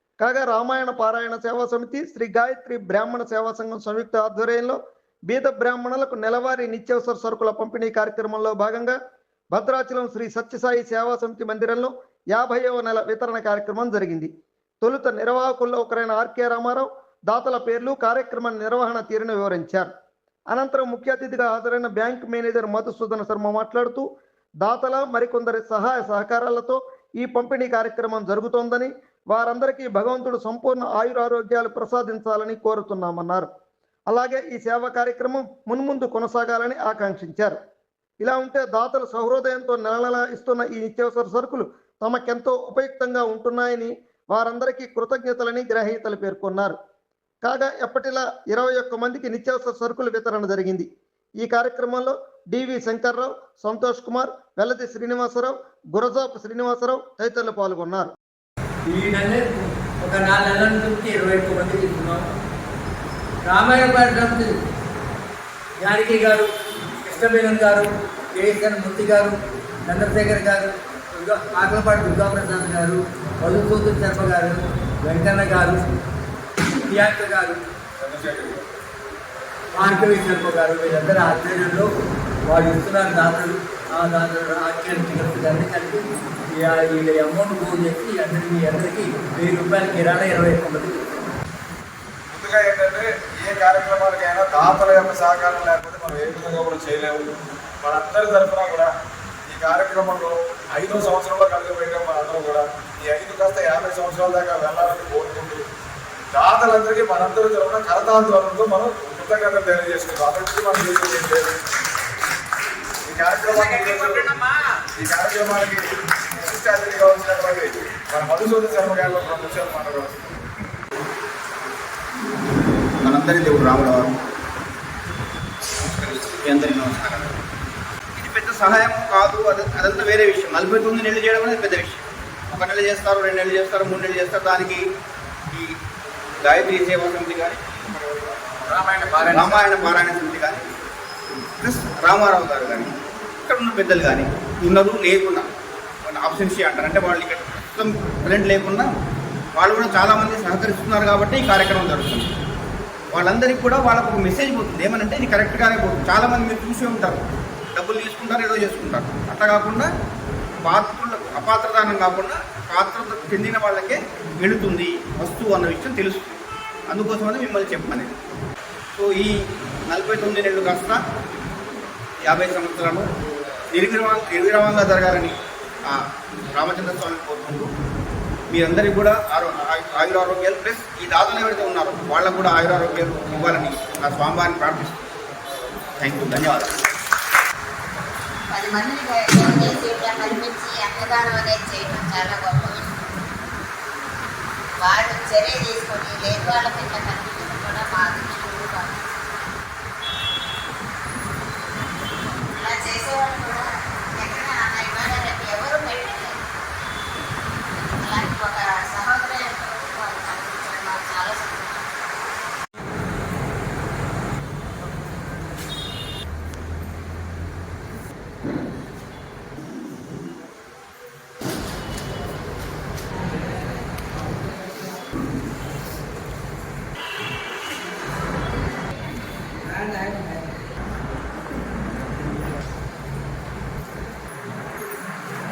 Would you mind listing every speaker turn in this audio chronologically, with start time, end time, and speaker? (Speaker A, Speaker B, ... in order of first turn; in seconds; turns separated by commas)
Speaker A: 0.2-9.0, Speaker A: 9.5-14.3, Speaker A: 14.8-19.9, Speaker A: 20.5-24.1, Speaker A: 24.6-33.5, Speaker A: 34.1-37.6, Speaker A: 38.2-46.8, Speaker A: 47.4-50.9, Speaker A: 51.4-58.1, Speaker B: 58.9-62.2, Speaker B: 63.4-64.6, Speaker B: 65.8-75.9, Speaker B: 76.9-77.6, Speaker C: 78.0-78.7, Speaker B: 79.8-81.9, Speaker B: 82.5-91.0, Speaker C: 92.3-98.9, Speaker C: 99.5-105.6, Speaker C: 106.3-111.5, Speaker C: 113.1-114.4, Speaker C: 115.0-115.8, Speaker C: 116.4-120.3, Speaker D: 123.0-124.1, Speaker D: 125.8-127.3, Speaker D: 128.2-134.8, Speaker D: 136.4-138.2, Speaker C: 138.7-139.6, Speaker D: 139.3-140.7, Speaker D: 141.6-142.9, Speaker D: 143.5-145.5, Speaker D: 146.1-148.9, Speaker D: 149.6-152.3, Speaker D: 153.2-159.9, Speaker D: 160.6-168.1, Speaker D: 168.9-169.3, Speaker D: 169.9-171.0, Speaker D: 172.3-173.1, Speaker D: 173.7-175.4, Speaker D: 176.5-177.7, Speaker D: 178.5-185.1, Speaker D: 186.0-186.8, Speaker E: 188.5-193.2, Speaker E: 194.8-199.0, Speaker E: 202.5-206.4, Speaker E: 207.7-211.9